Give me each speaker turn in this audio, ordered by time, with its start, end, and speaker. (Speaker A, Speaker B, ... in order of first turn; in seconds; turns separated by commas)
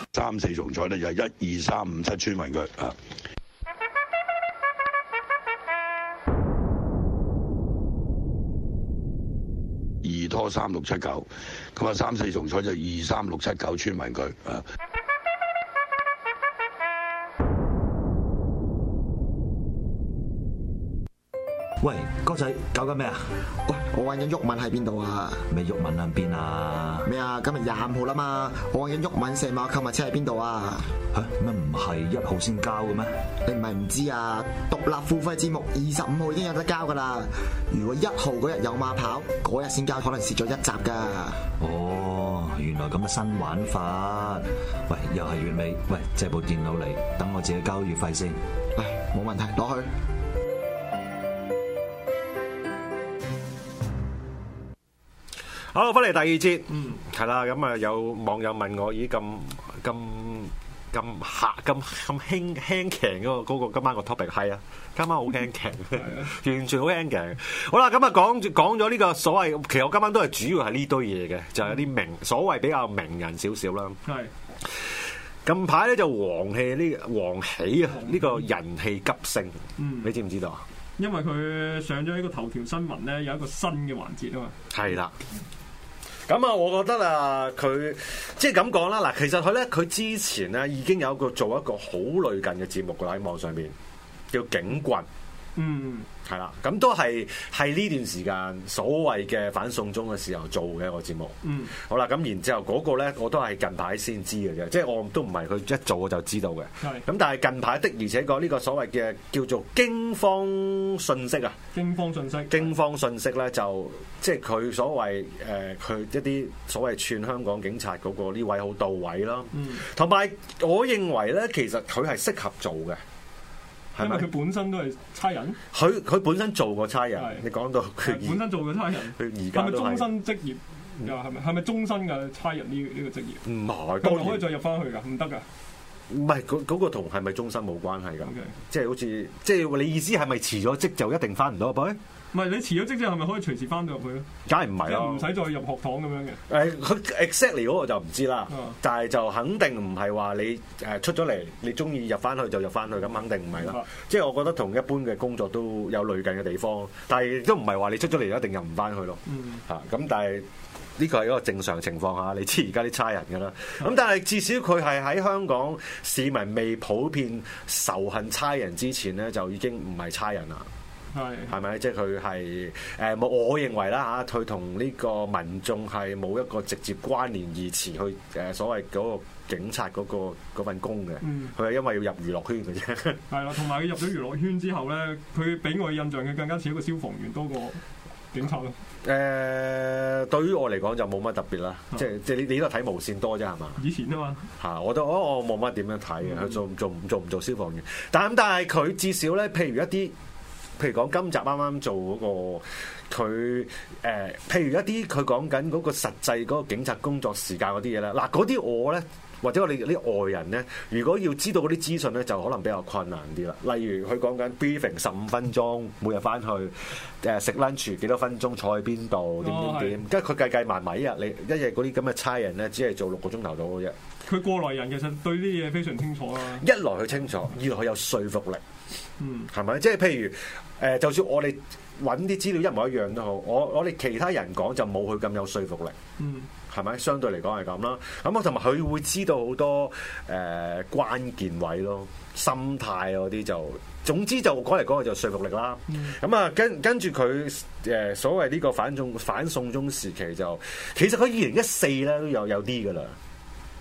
Speaker A: 0.1-3.0, Speaker A: 10.0-14.7, Speaker B: 21.8-23.4, Speaker C: 23.6-25.5, Speaker B: 25.5-27.1, Speaker C: 27.1-30.9, Speaker B: 31.0-33.2, Speaker C: 33.5-41.4, Speaker B: 41.5-48.4, Speaker C: 48.8-49.9, Speaker D: 55.7-74.0, Speaker E: 66.0-66.3, Speaker E: 74.1-74.3, Speaker D: 75.5-80.6, Speaker E: 77.9-78.4, Speaker E: 79.8-80.1, Speaker E: 81.0-84.5, Speaker D: 84.7-85.1, Speaker D: 86.3-93.7, Speaker D: 94.3-95.1, Speaker E: 95.6-96.1, Speaker D: 96.2-111.6, Speaker E: 101.4-101.8, Speaker E: 111.7-112.8, Speaker D: 112.5-123.0, Speaker E: 119.5-119.9, Speaker D: 124.0-124.3, Speaker E: 124.0-125.6, Speaker D: 125.7-128.5, Speaker E: 127.2-127.4, Speaker E: 128.0-133.4, Speaker D: 129.2-130.1, Speaker D: 133.4-134.5, Speaker E: 134.0-135.4, Speaker D: 136.1-142.0, Speaker E: 138.2-138.6, Speaker E: 142.3-144.3, Speaker D: 144.5-145.3, Speaker E: 144.8-146.4, Speaker D: 146.5-160.5, Speaker E: 148.5-148.8, Speaker E: 153.5-153.9, Speaker E: 159.3-159.6, Speaker D: 161.0-170.7, Speaker E: 171.1-171.5, Speaker D: 171.5-183.2, Speaker E: 181.2-181.6, Speaker E: 183.3-187.8, Speaker E: 188.3-188.8, Speaker D: 189.0-193.8, Speaker E: 193.8-194.5, Speaker D: 194.6-200.1, Speaker E: 196.3-196.5, Speaker D: 200.8-224.0, Speaker E: 219.4-220.0, Speaker E: 224.3-226.6, Speaker D: 226.6-228.6, Speaker E: 229.2-229.5, Speaker D: 229.5-236.0, Speaker E: 236.2-236.5, Speaker D: 236.7-253.2, Speaker E: 245.9-246.2